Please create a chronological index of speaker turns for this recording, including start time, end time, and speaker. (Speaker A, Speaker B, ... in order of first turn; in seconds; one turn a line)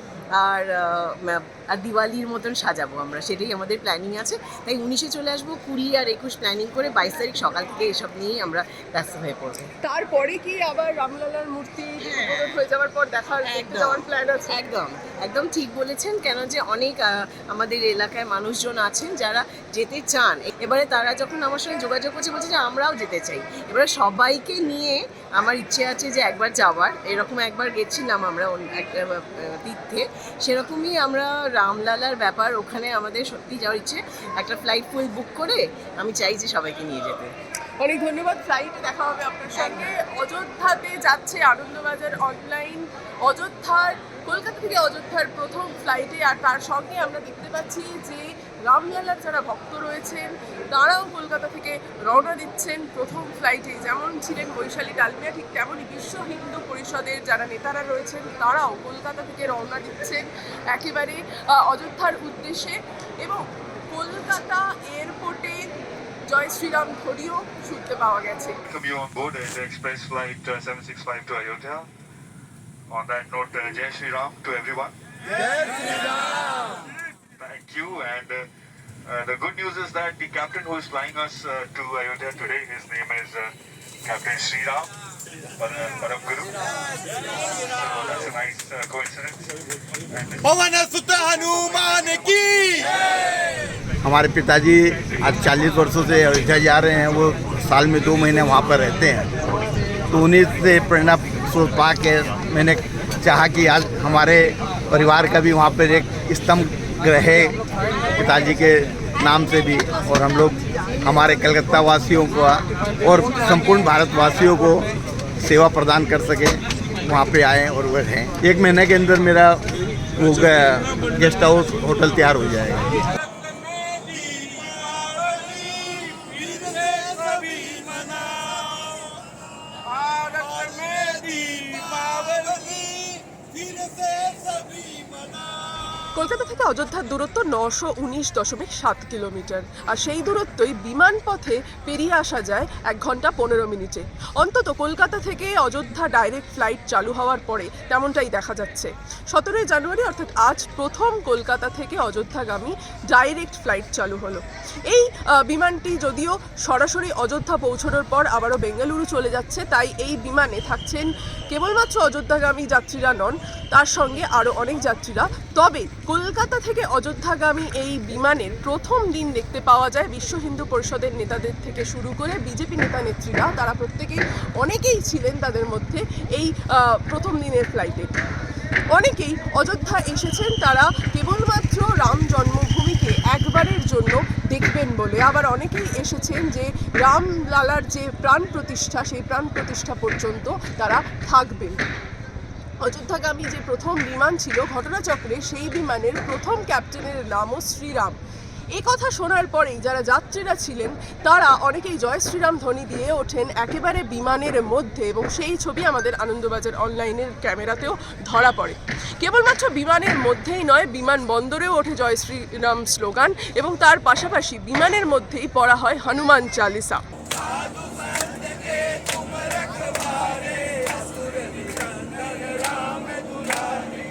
Speaker A: 0.4-9.7
Speaker B: 9.8-14.6
Speaker A: 12.0-12.4
Speaker A: 13.5-37.3
Speaker B: 37.8-65.7
Speaker A: 39.5-39.8
Speaker B: 66.3-68.6
Speaker C: 68.7-71.9
Speaker C: 72.9-74.9
Speaker C: 75.7-76.1
Speaker C: 77.4-78.5
Speaker C: 79.1-83.5
Speaker C: 84.0-84.9
Speaker C: 85.6-86.6
Speaker C: 87.5-89.5
Speaker C: 90.1-90.6
Speaker D: 90.6-92.9
Speaker E: 94.0-99.3
Speaker E: 100.1-107.6
Speaker E: 108.1-114.9
Speaker E: 115.4-119.6
Speaker E: 120.2-123.0
Speaker D: 123.5-128.9
Speaker D: 129.9-135.4
Speaker B: 136.1-178.1
Speaker B: 178.9-191.8
Speaker B: 192.8-198.2
Speaker B: 198.7-217.0
Speaker B: 222.7-223.6